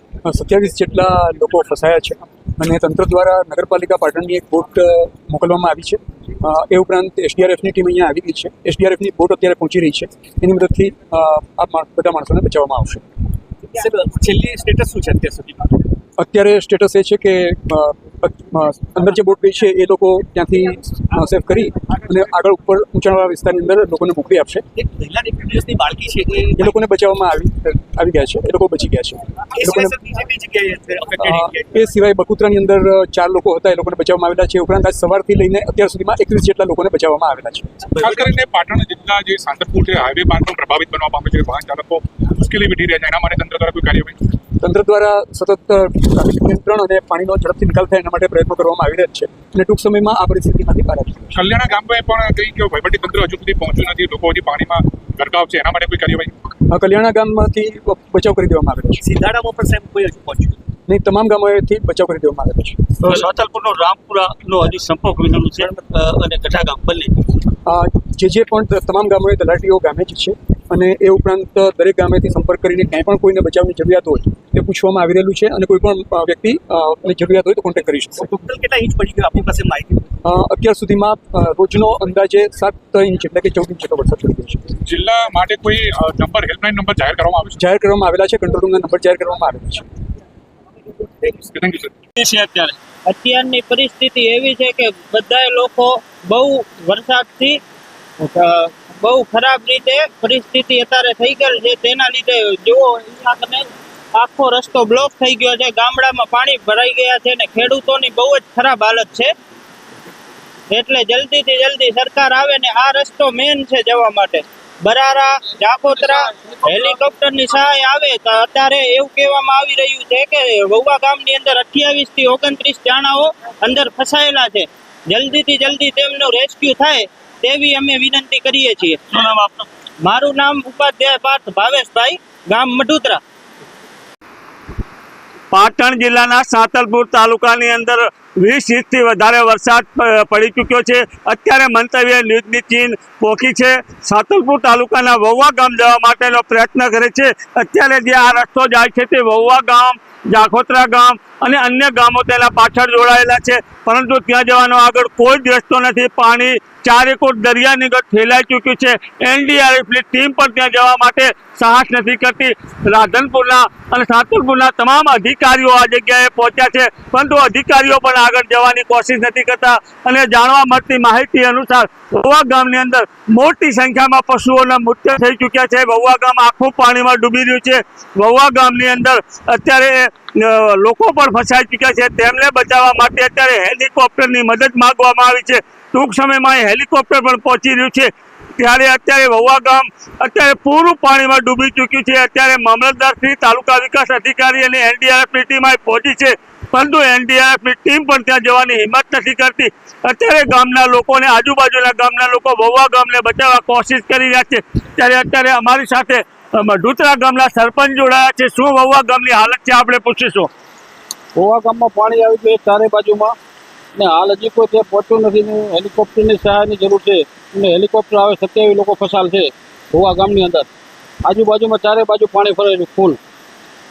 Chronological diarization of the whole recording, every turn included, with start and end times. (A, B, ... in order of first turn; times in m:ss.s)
0:00.2-0:13.0 A
0:13.7-0:15.8 B
0:16.2-0:24.6 A
0:24.8-0:26.7 B
0:26.6-0:30.0 A
0:29.6-0:31.7 B
0:31.2-0:37.8 A
0:37.9-0:38.2 B
0:38.0-0:44.2 C
0:44.6-0:51.4 A
0:51.4-0:56.3 C
0:56.7-0:59.0 A
0:59.0-1:00.6 B
1:00.9-1:03.2 A
1:03.0-1:07.2 D
1:07.6-1:18.3 A
1:18.2-1:20.1 B
1:20.2-1:24.7 A
1:24.8-1:27.6 C
1:27.6-1:29.8 A
1:31.2-1:31.9 C
1:32.2-1:32.7 D
1:33.0-1:37.6 E
1:38.2-1:49.3 E
1:50.7-2:09.0 E
2:09.1-2:09.6 D
2:10.0-2:13.2 E
2:15.5-3:30.5 D
3:31.4-3:33.3 F
3:34.0-3:40.7 F
3:41.2-3:43.2 F